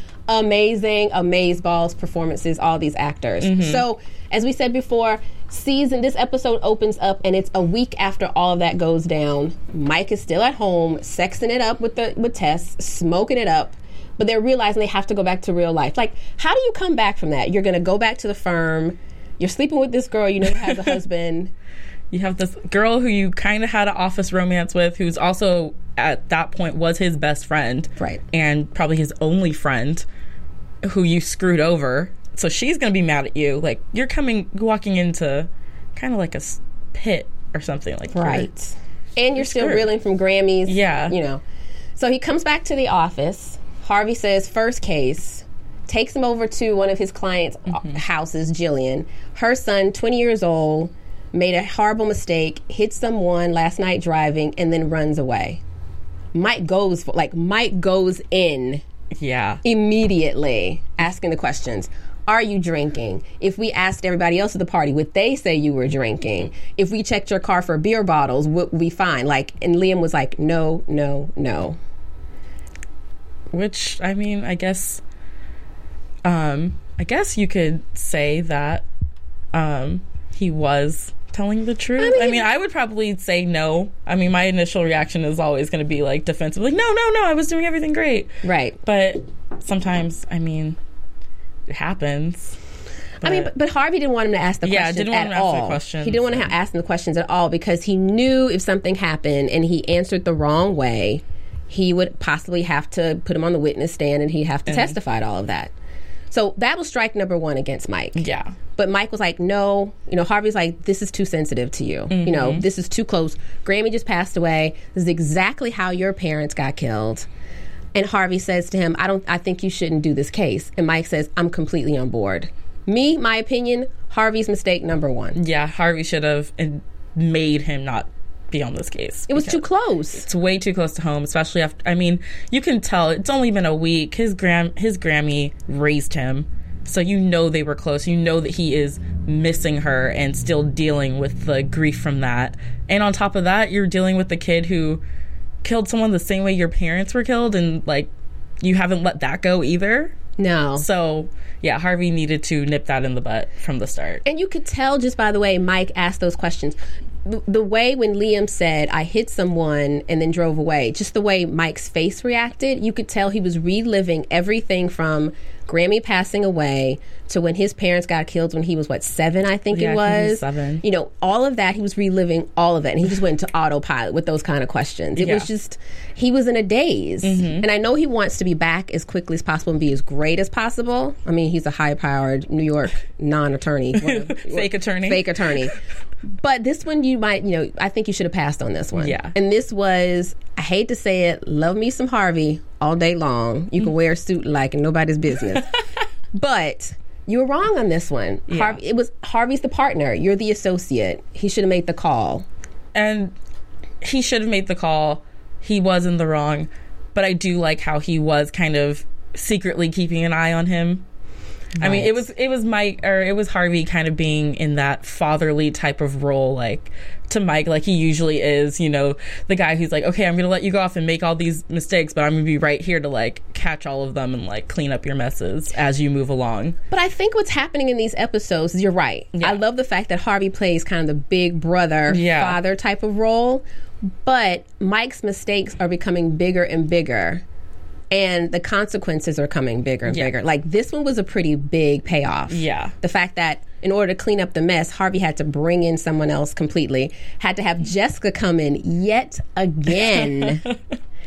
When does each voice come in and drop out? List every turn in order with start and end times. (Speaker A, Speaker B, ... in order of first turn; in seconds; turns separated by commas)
Speaker A: 0.3-21.5, Speaker B: 3.4-3.8, Speaker B: 22.1-30.1, Speaker B: 30.8-38.5, Speaker A: 38.1-41.4, Speaker B: 39.4-39.9, Speaker B: 40.7-41.2, Speaker A: 42.0-55.6, Speaker A: 56.3-58.8, Speaker B: 59.1-59.6, Speaker A: 59.6-71.8, Speaker B: 73.5-75.0, Speaker B: 76.2-78.8, Speaker B: 79.5-90.8, Speaker A: 82.0-82.5, Speaker A: 88.4-88.8, Speaker B: 91.7-92.6, Speaker B: 93.2-93.5, Speaker A: 93.2-105.7, Speaker B: 94.6-96.5, Speaker B: 104.7-105.0, Speaker A: 106.3-108.2, Speaker B: 108.2-108.5, Speaker A: 108.8-117.3, Speaker B: 112.1-112.7, Speaker A: 118.0-125.4, Speaker B: 125.4-145.0, Speaker A: 129.3-130.2, Speaker B: 145.6-148.1, Speaker B: 148.6-150.2, Speaker A: 150.4-150.8, Speaker B: 150.8-154.2, Speaker A: 154.2-185.8, Speaker B: 169.7-170.8, Speaker B: 175.2-175.5, Speaker B: 177.2-177.7, Speaker B: 184.0-185.5, Speaker A: 186.4-195.8, Speaker B: 189.0-189.3, Speaker A: 196.3-202.5, Speaker B: 198.5-198.8, Speaker B: 202.9-203.3, Speaker B: 204.0-211.0, Speaker B: 211.8-226.8, Speaker A: 211.8-212.3, Speaker A: 226.9-237.4, Speaker B: 229.3-229.6, Speaker B: 232.1-232.6, Speaker A: 238.1-250.7, Speaker B: 242.5-242.9